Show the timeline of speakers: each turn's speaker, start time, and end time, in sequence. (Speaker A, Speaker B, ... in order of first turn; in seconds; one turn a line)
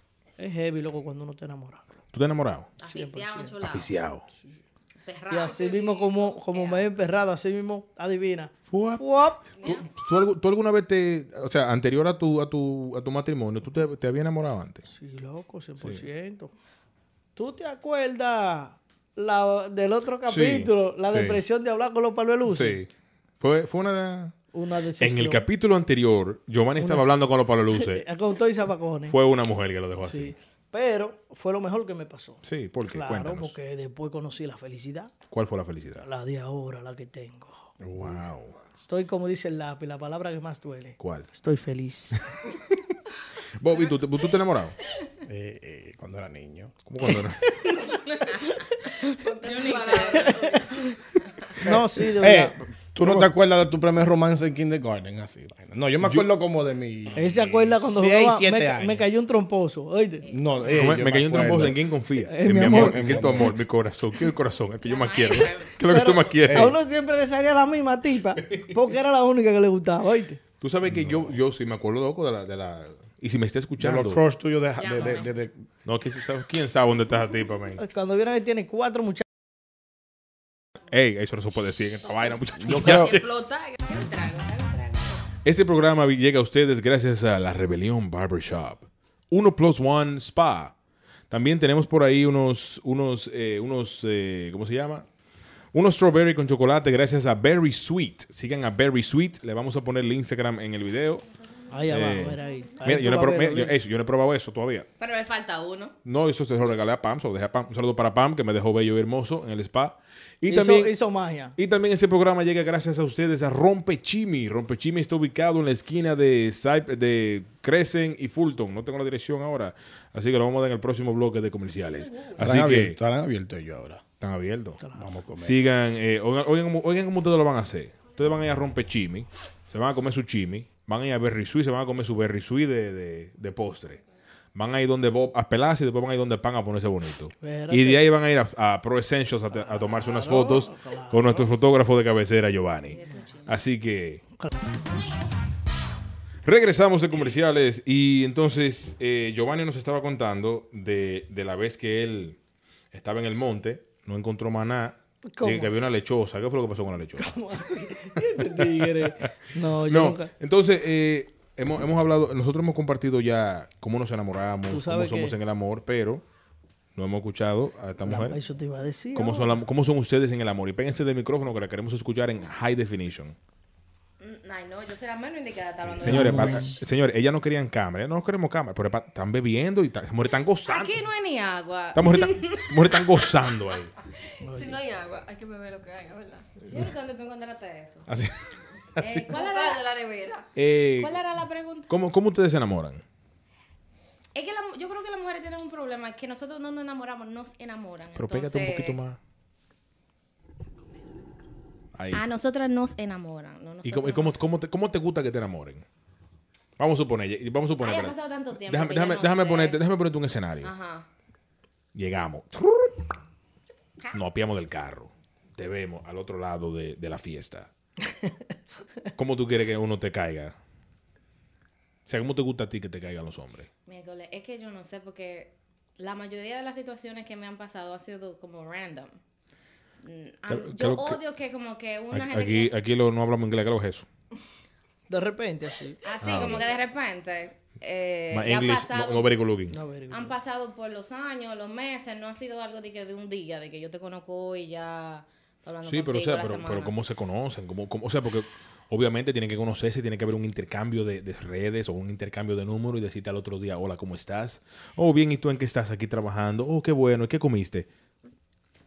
Speaker A: 0.4-2.0
Speaker B: 2.1-2.7
Speaker C: 2.8-3.9
Speaker A: 2.8-3.6
Speaker B: 3.6-4.2
Speaker C: 5.0-7.0
Speaker A: 5.3-9.4
Speaker B: 8.7-14.8
Speaker C: 9.6-9.9
Speaker A: 14.9-16.5
Speaker A: 17.4-22.8
Speaker B: 20.3-21.4
Speaker B: 22.5-22.9
Speaker B: 23.4-24.4
Speaker A: 24.5-25.4
Speaker B: 25.0-28.1
Speaker A: 26.8-27.1
Speaker A: 27.8-29.2
Speaker B: 29.1-30.3
Speaker A: 30.0-35.1
Speaker B: 32.4-33.5
Speaker B: 35.3-36.1
Speaker A: 36.0-37.7
Speaker D: 37.8-38.3
Speaker B: 38.0-38.6
Speaker A: 38.8-42.3
Speaker B: 41.0-41.3
Speaker B: 43.6-44.8
Speaker D: 45.3-46.8
Speaker B: 46.9-47.6
Speaker C: 47.7-48.7
Speaker A: 48.5-49.1
Speaker E: 49.2-50.9
Speaker C: 49.4-50.4
Speaker A: 50.2-50.9
Speaker A: 51.6-52.6
Speaker D: 51.7-59.1
Speaker B: 53.0-53.3
Speaker B: 56.0-56.3
Speaker A: 57.1-60.3
Speaker C: 60.2-60.5
Speaker D: 60.3-61.8
Speaker B: 60.7-66.8
Speaker A: 62.3-63.3
Speaker D: 62.5-63.5
Speaker C: 64.8-66.4
Speaker A: 65.9-70.4
Speaker D: 66.5-66.7
Speaker B: 70.6-74.2
Speaker D: 70.9-71.4
Speaker D: 73.8-75.5
Speaker C: 74.8-75.3
Speaker B: 75.8-77.8
Speaker A: 77.8-79.2
Speaker B: 80.9-83.3
Speaker C: 82.6-85.3
Speaker D: 82.7-83.1
Speaker B: 85.4-90.7
Speaker B: 91.3-95.1
Speaker B: 95.7-101.3
Speaker A: 101.7-103.8
Speaker C: 101.9-103.0
Speaker B: 101.9-104.9
Speaker C: 105.0-106.0
Speaker B: 106.0-111.0
Speaker A: 110.5-111.6
Speaker B: 111.6-123.0
Speaker C: 121.9-122.4
Speaker D: 122.4-124.0
Speaker B: 124.2-124.8
Speaker D: 124.9-125.6
Speaker B: 125.4-134.0
Speaker B: 134.6-144.2
Speaker A: 137.4-138.1
Speaker A: 139.5-141.5
Speaker C: 142.9-143.6
Speaker A: 144.4-144.8
Speaker B: 146.4-152.4
Speaker B: 152.9-157.3
Speaker A: 155.3-155.8
Speaker A: 157.2-160.3
Speaker B: 158.5-166.2
Speaker A: 164.7-165.3
Speaker B: 167.0-168.4
Speaker A: 168.1-169.6
Speaker B: 169.2-173.4
Speaker C: 174.2-176.8
Speaker B: 175.9-181.0
Speaker A: 176.1-176.8
Speaker C: 180.7-183.4
Speaker B: 181.9-183.9
Speaker A: 184.4-184.8
Speaker E: 184.5-186.5
Speaker C: 186.7-188.1
Speaker B: 188.1-188.4
Speaker B: 189.0-189.3
Speaker C: 189.0-189.8
Speaker E: 189.3-190.5
Speaker B: 190.6-191.2
Speaker C: 190.9-191.9
Speaker B: 191.9-193.0
Speaker C: 194.3-199.0
Speaker B: 198.2-199.2
Speaker B: 201.9-202.2
Speaker C: 202.1-204.4
Speaker B: 203.8-205.8
Speaker B: 206.8-208.2
Speaker C: 207.8-209.8
Speaker B: 208.7-210.7
Speaker C: 210.6-211.1
Speaker B: 211.9-213.1
Speaker B: 214.1-217.7
Speaker B: 219.2-220.6
Speaker B: 222.1-223.7
Speaker C: 223.9-229.1
Speaker C: 230.0-232.7
Speaker B: 230.5-231.2
Speaker B: 232.1-234.1
Speaker A: 235.1-236.5
Speaker C: 236.0-239.4
Speaker B: 236.2-236.7
Speaker B: 238.3-239.8
Speaker A: 239.7-240.4
Speaker C: 240.1-246.9
Speaker B: 245.8-257.9